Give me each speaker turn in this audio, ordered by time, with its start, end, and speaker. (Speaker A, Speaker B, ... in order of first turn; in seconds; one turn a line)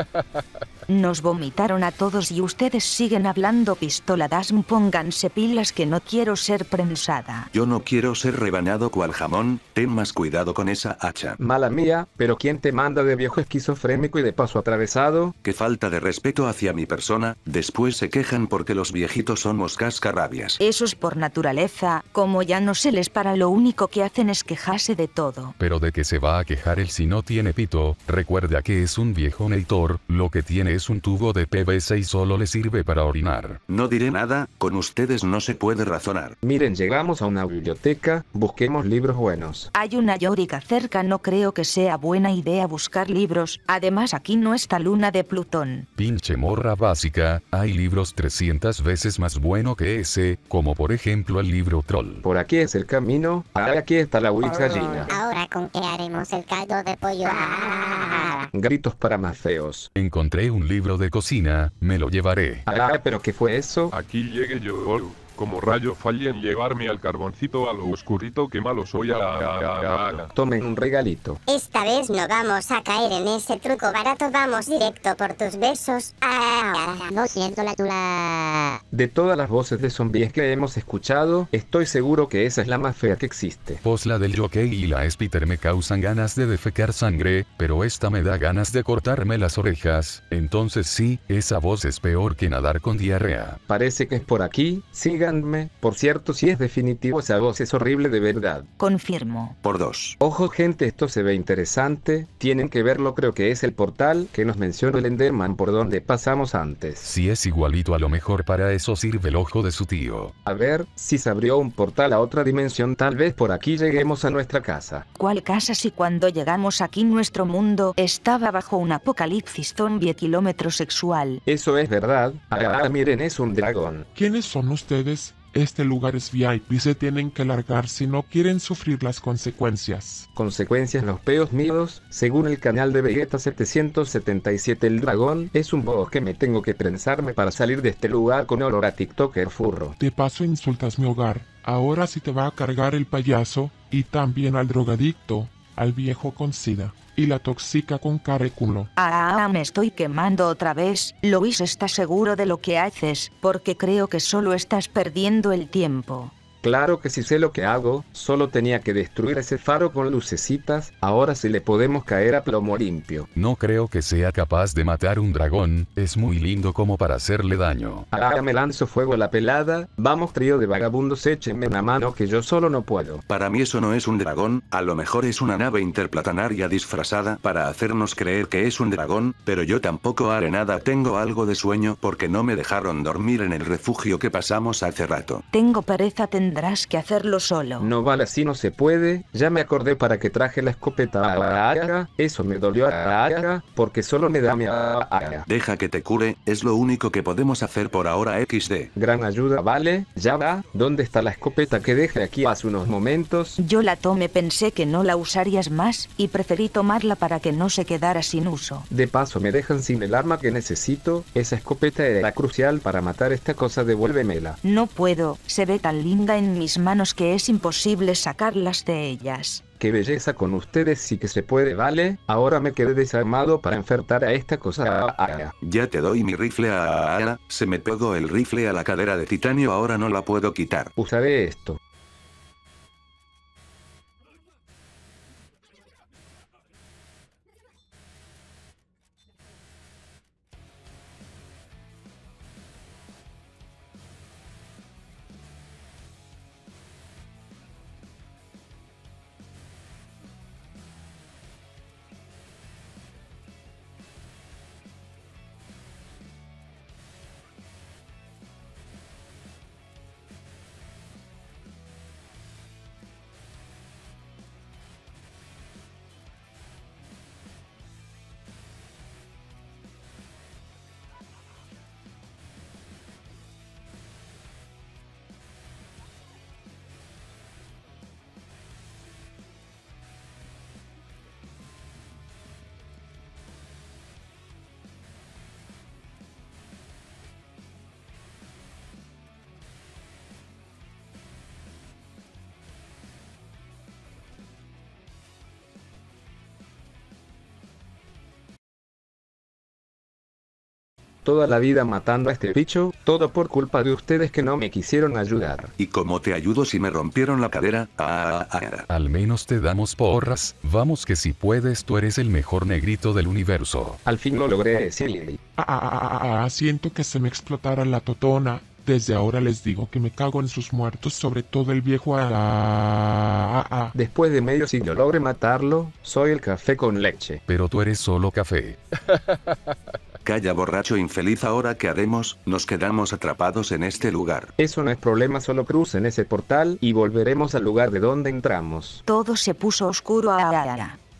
Speaker A: 0.9-7.5
Speaker B: 7.5-11.4
Speaker C: 11.4-15.3
Speaker B: 15.4-20.6
Speaker A: 20.6-25.5
Speaker D: 25.6-33.6
Speaker B: 33.7-36.4
Speaker C: 36.4-39.7
Speaker A: 39.7-45.9
Speaker D: 46.0-52.2
Speaker C: 52.2-55.2
Speaker E: 55.1-58.5
Speaker C: 58.5-59.9
Speaker D: 59.9-62.7
Speaker C: 62.7-63.9
Speaker F: 63.9-70.3
Speaker C: 70.2-71.4
Speaker E: 71.5-78.7
Speaker C: 78.9-83.8
Speaker D: 83.8-93.6
Speaker C: 93.7-98.7
Speaker A: 98.8-99.5
Speaker B: 99.6-100.2
Speaker C: 100.2-107.1
Speaker D: 107.0-110.3
Speaker C: 110.4-115.0
Speaker A: 115.1-121.4
Speaker C: 121.5-124.0
Speaker G: 124.1-130.2
Speaker C: 130.3-139.9
Speaker G: 140.0-148.9
Speaker A: 148.9-156.3
Speaker C: 156.6-163.3
Speaker D: 163.3-168.1
Speaker C: 168.1-173.2
Speaker B: 173.3-185.4
Speaker A: 185.5-187.9
Speaker C: 187.8-195.4
Speaker B: 195.5-198.9
Speaker C: 198.9-203.6
Speaker A: 203.6-208.9
Speaker C: 208.9-214.6
Speaker A: 214.6-219.6
Speaker C: 219.8-225.5
Speaker B: 225.6-230.9
Speaker C: 230.9-231.8
Speaker C: 301.2-305.7
Speaker B: 305.8-308.9
Speaker D: 308.9-314.0
Speaker C: 314.0-315.4
Speaker G: 315.6-323.9
Speaker C: 323.9-327.4
Speaker D: 327.4-328.8
Speaker B: 330.2-334.5
Speaker C: 334.6-339.0
Speaker A: 339.1-340.9